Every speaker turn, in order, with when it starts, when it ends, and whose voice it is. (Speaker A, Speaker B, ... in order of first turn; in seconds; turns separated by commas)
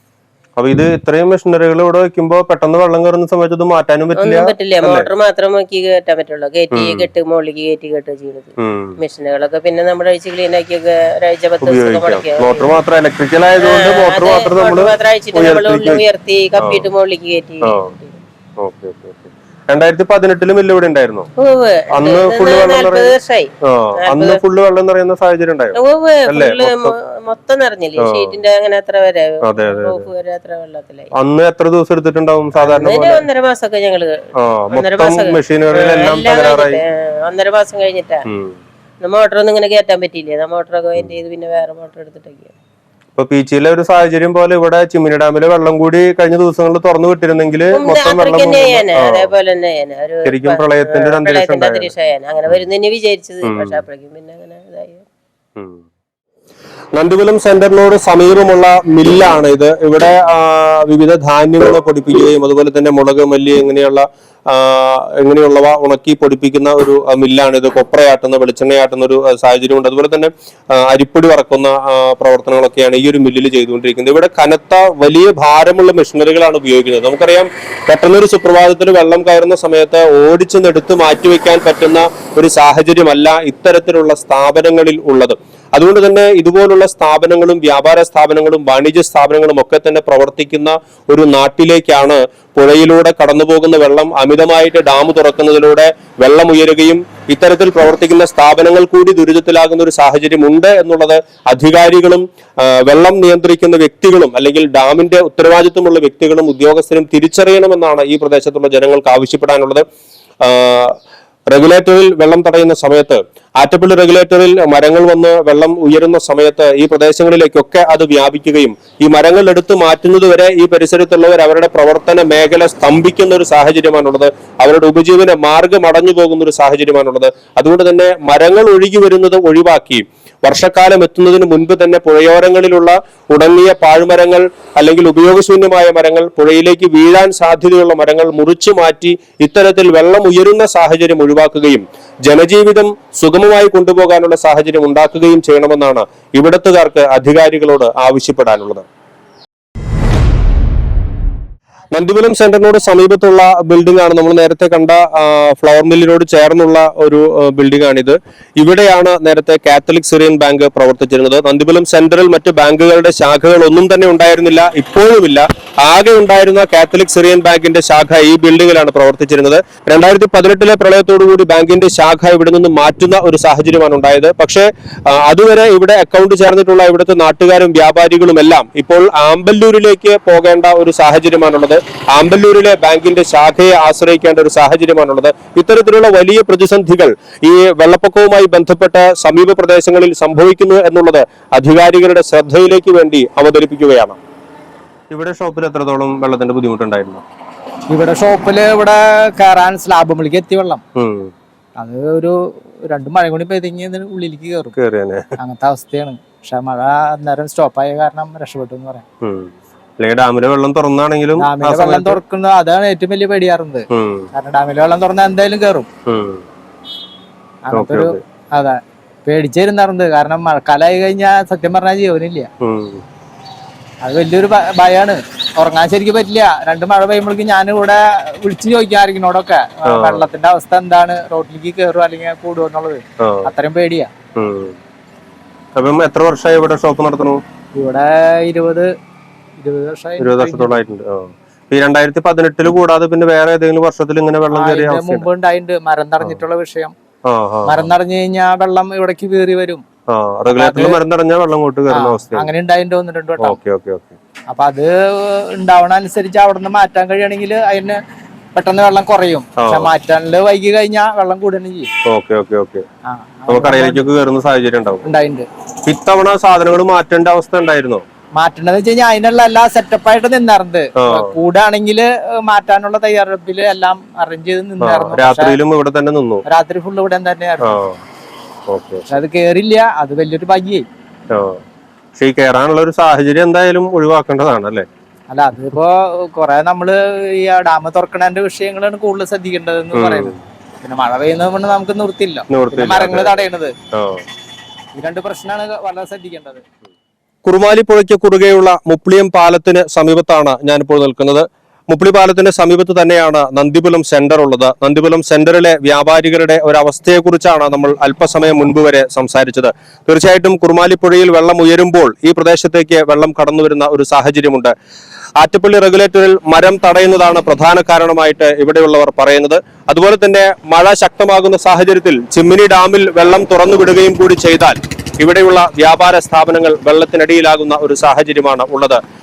Speaker A: 0.6-5.1, Speaker B: 4.2-12.8, Speaker A: 6.7-7.1, Speaker A: 8.6-9.0, Speaker A: 11.6-16.0, Speaker B: 13.6-18.2, Speaker A: 16.6-16.9, Speaker A: 17.7-17.9, Speaker A: 18.6-21.3, Speaker B: 21.4-24.4, Speaker A: 21.9-23.1, Speaker A: 23.7-25.8, Speaker B: 25.7-31.1, Speaker A: 26.3-26.9, Speaker A: 28.0-28.4, Speaker A: 29.5-30.1, Speaker A: 31.2-33.2, Speaker B: 32.6-34.2, Speaker A: 34.4-36.8, Speaker B: 34.7-38.2, Speaker A: 38.3-38.6, Speaker B: 39.0-42.5, Speaker A: 43.2-49.3, Speaker B: 47.7-55.0, Speaker A: 50.2-51.9, Speaker A: 53.5-53.8, Speaker A: 55.6-55.8, Speaker A: 57.0-109.8, Speaker A: 110.4-111.0, Speaker A: 111.5-148.8, Speaker A: 151.9-194.2, Speaker A: 195.1-197.2, Speaker C: 197.9-200.8, Speaker A: 201.0-201.3, Speaker C: 201.8-202.3, Speaker C: 202.9-204.7, Speaker A: 204.8-205.3, Speaker C: 205.4-209.0, Speaker A: 209.2-212.2, Speaker C: 211.4-215.9, Speaker A: 213.9-214.3, Speaker A: 216.1-216.4, Speaker C: 217.7-222.5, Speaker A: 217.7-218.2, Speaker A: 222.6-223.0, Speaker C: 224.0-234.1, Speaker A: 229.9-230.3, Speaker A: 233.2-233.5, Speaker A: 234.4-234.8, Speaker A: 235.8-237.4, Speaker C: 237.8-238.9, Speaker C: 239.6-240.8, Speaker A: 240.2-245.3, Speaker C: 244.5-246.9, Speaker A: 247.3-247.9, Speaker C: 247.7-249.8, Speaker A: 250.1-252.5, Speaker C: 250.6-251.0, Speaker C: 251.9-253.6, Speaker A: 253.4-254.2, Speaker C: 254.5-258.0, Speaker C: 258.6-261.9, Speaker A: 259.6-259.9, Speaker A: 262.1-262.9, Speaker C: 263.1-264.0, Speaker A: 263.5-265.1, Speaker C: 265.1-265.4, Speaker A: 265.9-268.0, Speaker C: 268.4-275.6, Speaker A: 271.0-271.3, Speaker A: 274.8-276.4, Speaker C: 276.5-277.8, Speaker A: 277.6-278.0, Speaker A: 278.7-279.2, Speaker C: 279.1-280.9, Speaker A: 281.3-281.6, Speaker A: 282.2-284.9, Speaker C: 285.3-293.7, Speaker A: 289.9-290.4, Speaker A: 292.5-294.2, Speaker C: 295.0-296.6, Speaker A: 297.4-314.7, Speaker A: 315.4-329.0